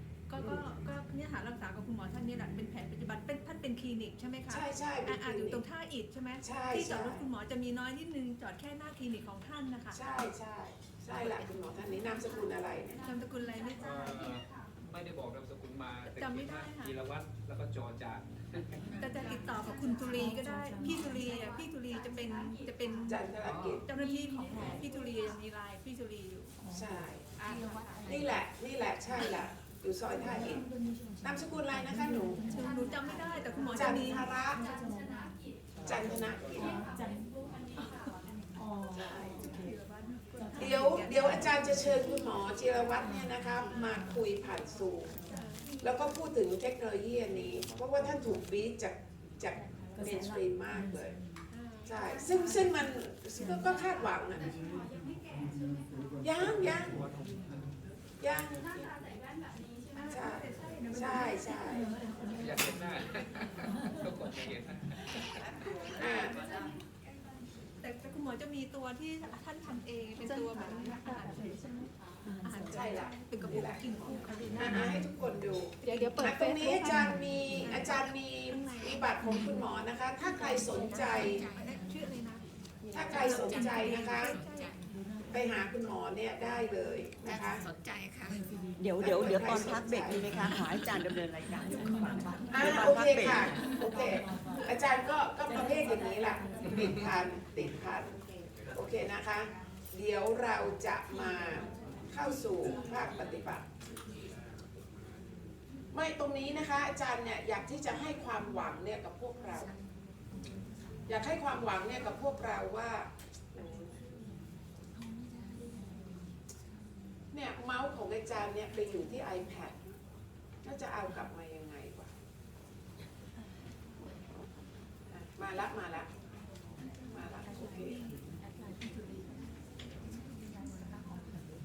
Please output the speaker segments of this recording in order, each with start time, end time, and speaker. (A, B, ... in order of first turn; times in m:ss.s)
0:00.3-0:10.2 A
0:00.4-0:00.7 B
0:04.5-0:05.6 B
0:06.4-0:07.3 B
0:09.9-0:13.1 B
0:13.0-0:14.3 A
0:13.8-0:19.2 C
0:16.0-0:17.0 A
0:19.0-0:23.2 A
0:20.0-0:21.2 D
0:23.1-0:23.9 B
0:23.4-0:23.9 C
0:23.9-0:26.6 A
0:26.6-0:27.0 D
0:26.7-0:27.3 B
0:27.4-0:28.4 E
0:27.4-0:27.8 A
0:28.1-0:30.7 B
0:30.2-0:35.4 D
0:31.2-0:32.5 B
0:32.5-0:34.3 A
0:33.7-0:34.7 B
0:35.8-0:36.1 C
0:35.8-0:36.8 B
0:36.0-0:37.9 D
0:38.5-0:39.8 D
0:38.9-0:39.4 B
0:39.4-0:42.0 A
0:40.4-0:41.6 D
0:40.6-0:45.2 B
0:43.0-0:43.4 D
0:45.3-0:45.7 A
0:45.8-0:51.2 B
0:49.6-0:51.5 D
0:51.5-0:54.1 A
0:51.9-0:54.6 B
0:56.2-0:57.0 B
0:56.4-0:57.7 C
0:58.2-0:58.7 B
1:00.0-1:01.9 A
1:00.1-1:01.9 B
1:01.7-1:02.7 D
1:02.4-1:06.7 C
1:06.0-1:06.4 B
1:07.8-1:11.6 A
1:10.2-1:12.9 D
1:12.4-1:15.1 A
1:12.7-1:21.4 B
1:14.6-1:15.1 D
1:15.8-1:19.6 A
1:16.8-1:17.6 D
1:20.2-1:22.4 A
1:20.9-1:22.0 E
1:22.8-1:23.3 F
1:22.9-1:24.4 B
1:23.0-1:24.8 A
1:23.1-1:24.9 E
1:24.9-1:25.6 D
1:25.3-1:27.6 B
1:27.2-1:28.6 E
1:28.8-1:33.7 F
1:29.0-1:30.4 B
1:31.8-1:34.7 D
1:32.5-1:38.2 B
1:35.4-1:37.2 D
1:38.7-1:43.7 B
1:45.9-1:49.7 B
1:49.5-1:51.2 E
1:51.1-1:54.0 B
1:54.9-1:57.2 E
1:57.3-2:00.0 B
2:00.6-2:02.1 B
2:05.1-2:06.1 B
2:07.0-2:08.0 B
2:07.9-2:09.5 D
2:10.3-2:11.4 D